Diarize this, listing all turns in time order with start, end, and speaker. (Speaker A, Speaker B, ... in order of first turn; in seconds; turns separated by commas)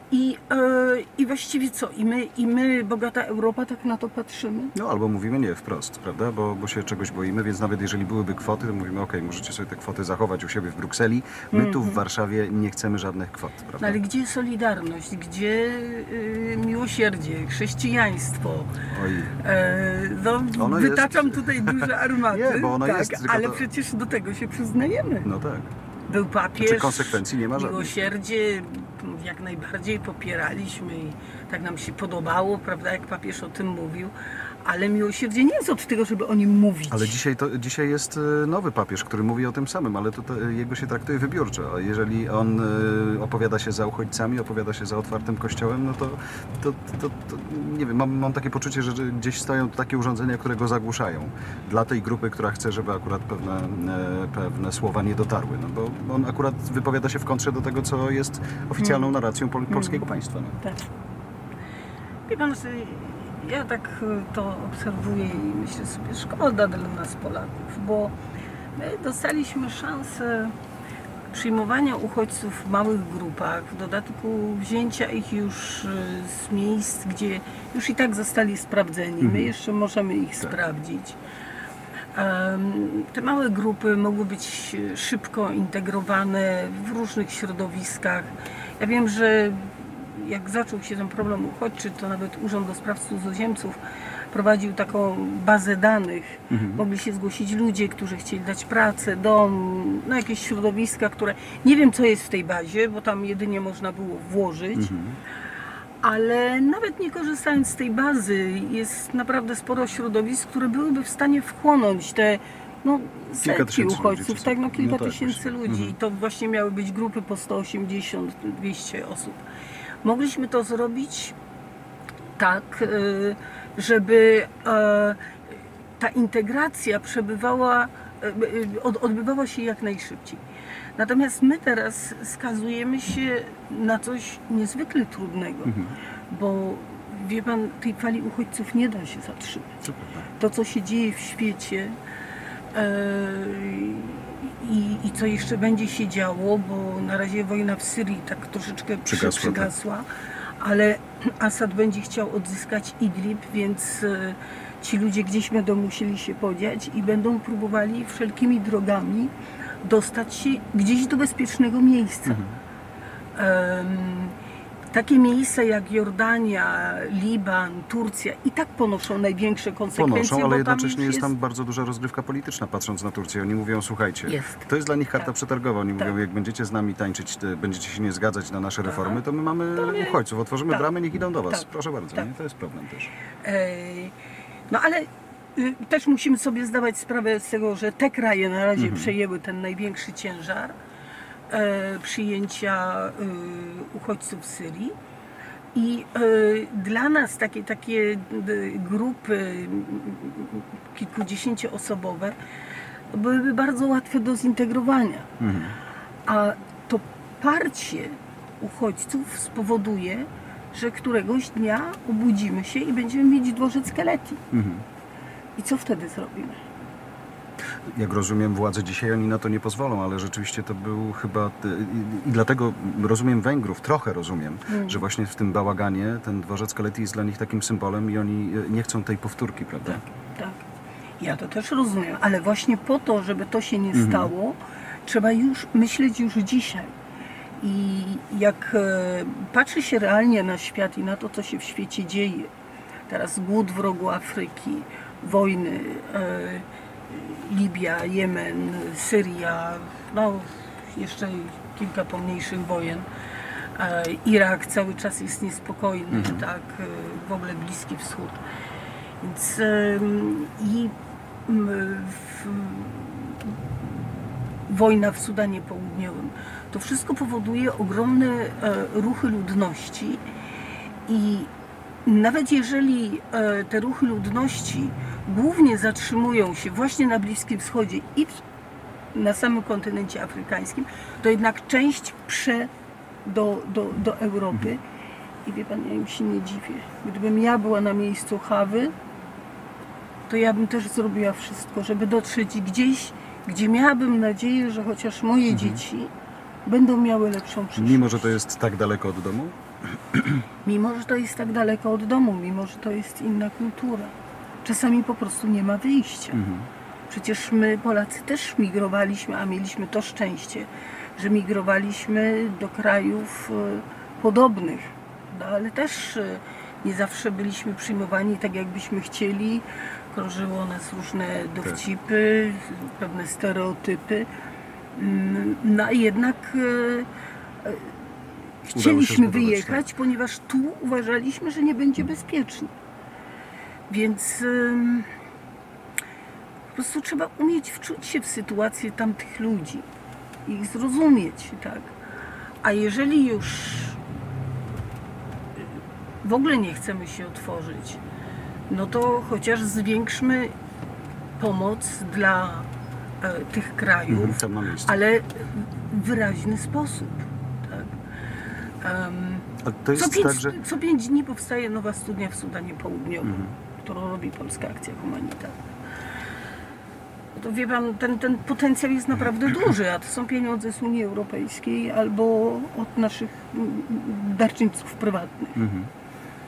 Speaker A: 0.1-4.7, Speaker B: 4.7-14.0, Speaker A: 11.5-12.0, Speaker A: 13.8-18.7, Speaker B: 18.9-19.4, Speaker A: 19.4-25.3, Speaker B: 20.6-23.6, Speaker B: 25.2-25.7, Speaker A: 26.1-37.1, Speaker B: 26.6-28.1, Speaker B: 36.9-60.6, Speaker A: 58.8-59.1, Speaker A: 59.7-60.0, Speaker A: 60.6-60.9, Speaker A: 62.3-68.1, Speaker A: 68.8-70.5, Speaker A: 71.3-81.2, Speaker B: 79.2-79.5, Speaker A: 82.1-93.8, Speaker A: 94.3-104.9, Speaker B: 96.5-96.8, Speaker B: 104.7-105.2, Speaker A: 106.0-119.4, Speaker B: 113.4-115.9, Speaker A: 120.0-121.3, Speaker A: 122.4-130.4, Speaker A: 131.0-135.8, Speaker B: 135.7-135.9, Speaker A: 136.3-139.7, Speaker B: 139.8-140.3, Speaker A: 140.4-142.0, Speaker A: 142.7-150.1, Speaker B: 149.1-149.7, Speaker A: 150.6-162.4, Speaker B: 162.2-162.6, Speaker A: 163.3-164.3, Speaker A: 164.9-171.3, Speaker B: 169.9-183.1, Speaker A: 174.3-174.6, Speaker A: 178.8-179.2, Speaker A: 179.8-180.2, Speaker A: 181.5-182.3, Speaker A: 183.4-184.1, Speaker A: 184.7-190.7, Speaker B: 188.8-189.1, Speaker A: 191.5-194.9, Speaker A: 195.7-202.3, Speaker A: 203.1-205.3, Speaker B: 205.4-205.8, Speaker A: 206.2-214.4, Speaker B: 214.5-214.8, Speaker A: 215.6-216.6, Speaker B: 217.9-230.0, Speaker A: 224.7-225.0, Speaker A: 229.8-230.6, Speaker A: 231.2-236.9, Speaker B: 233.9-234.3, Speaker A: 237.6-242.5, Speaker A: 243.1-253.1, Speaker A: 253.7-258.4, Speaker B: 256.1-256.4, Speaker A: 259.2-260.9, Speaker A: 261.4-263.6, Speaker A: 264.7-270.2, Speaker A: 271.1-271.5, Speaker A: 272.0-278.4, Speaker A: 279.1-282.7, Speaker A: 283.2-284.8, Speaker A: 285.4-288.9, Speaker A: 290.3-296.1, Speaker B: 295.5-295.8, Speaker A: 296.6-298.3, Speaker B: 297.8-300.4, Speaker A: 300.6-306.4, Speaker B: 306.3-306.7, Speaker A: 307.1-324.3, Speaker A: 324.9-327.1, Speaker A: 327.6-328.1, Speaker A: 328.6-332.7, Speaker B: 328.7-329.9, Speaker A: 333.9-335.1, Speaker A: 336.7-339.9, Speaker A: 340.4-341.9, Speaker A: 342.6-344.0, Speaker A: 346.2-348.0, Speaker A: 348.7-350.5, Speaker A: 351.4-352.7, Speaker A: 353.2-357.9, Speaker B: 354.1-354.9, Speaker A: 358.8-365.6, Speaker B: 359.6-360.6, Speaker B: 363.2-363.5, Speaker A: 367.3-375.6, Speaker B: 375.6-375.9